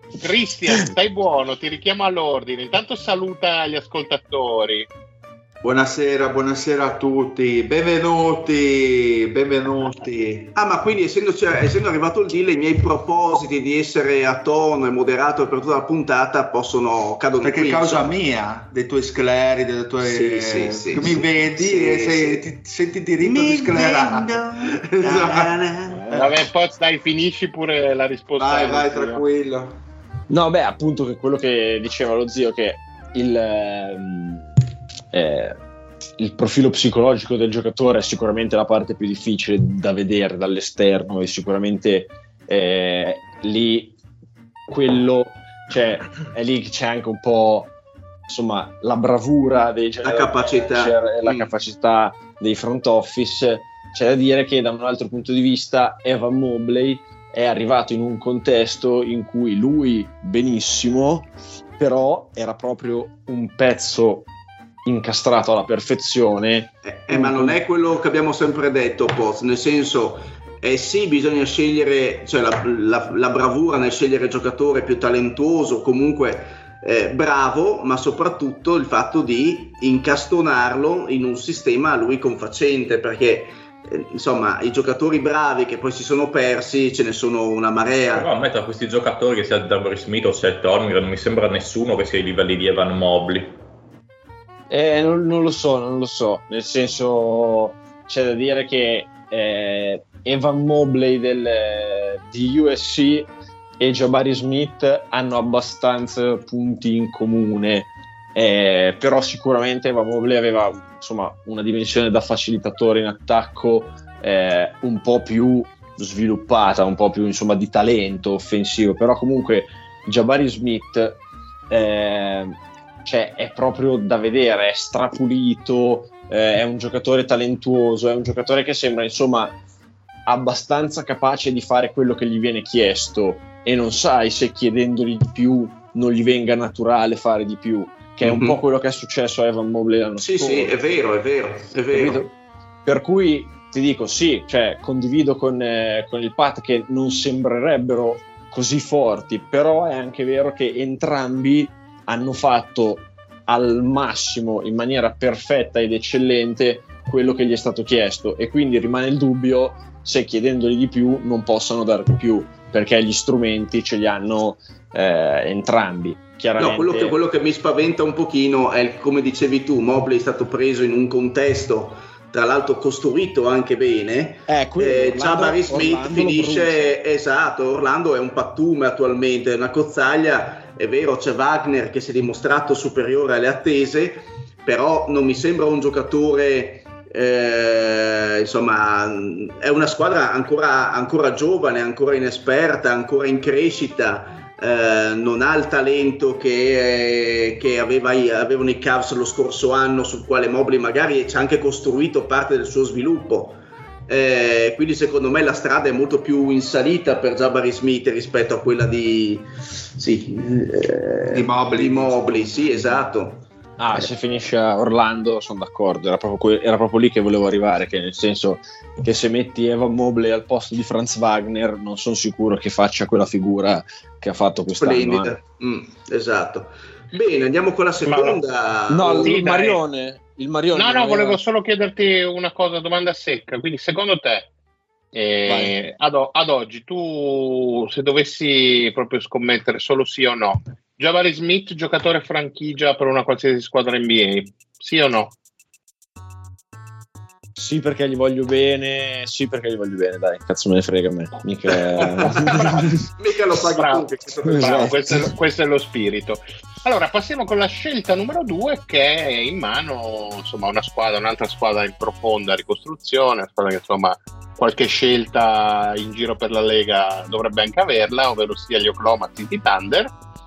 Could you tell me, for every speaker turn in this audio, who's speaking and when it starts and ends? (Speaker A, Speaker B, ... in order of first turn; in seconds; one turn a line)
Speaker A: 0.2-4.9
Speaker B: 5.6-10.5
Speaker C: 10.6-18.1
Speaker B: 17.4-26.4
Speaker C: 20.0-22.5
Speaker C: 23.2-26.1
Speaker A: 26.1-29.2
Speaker B: 28.4-29.8
Speaker D: 30.3-34.5
Speaker D: 35.1-35.6
Speaker D: 36.2-44.0
Speaker D: 44.7-47.7
Speaker D: 48.3-64.3
Speaker C: 50.0-51.5
Speaker D: 64.9-67.6
Speaker C: 66.9-88.3
Speaker E: 88.1-93.6
Speaker D: 94.7-129.6
Speaker D: 130.3-140.8
Speaker C: 138.2-138.6
Speaker C: 140.2-142.3
Speaker D: 141.9-142.3
Speaker D: 142.8-167.2
Speaker C: 166.6-213.4
Speaker D: 174.5-176.9
Speaker B: 211.3-213.0
Speaker D: 213.8-225.4
Speaker C: 224.8-229.4
Speaker A: 228.0-228.4
Speaker D: 228.9-231.4
Speaker A: 229.2-229.8
Speaker A: 230.7-234.5
Speaker A: 235.1-245.4
Speaker D: 235.5-235.7
Speaker D: 247.6-253.0
Speaker A: 252.0-252.9
Speaker C: 253.2-255.0
Speaker A: 253.7-270.1
Speaker D: 254.5-255.3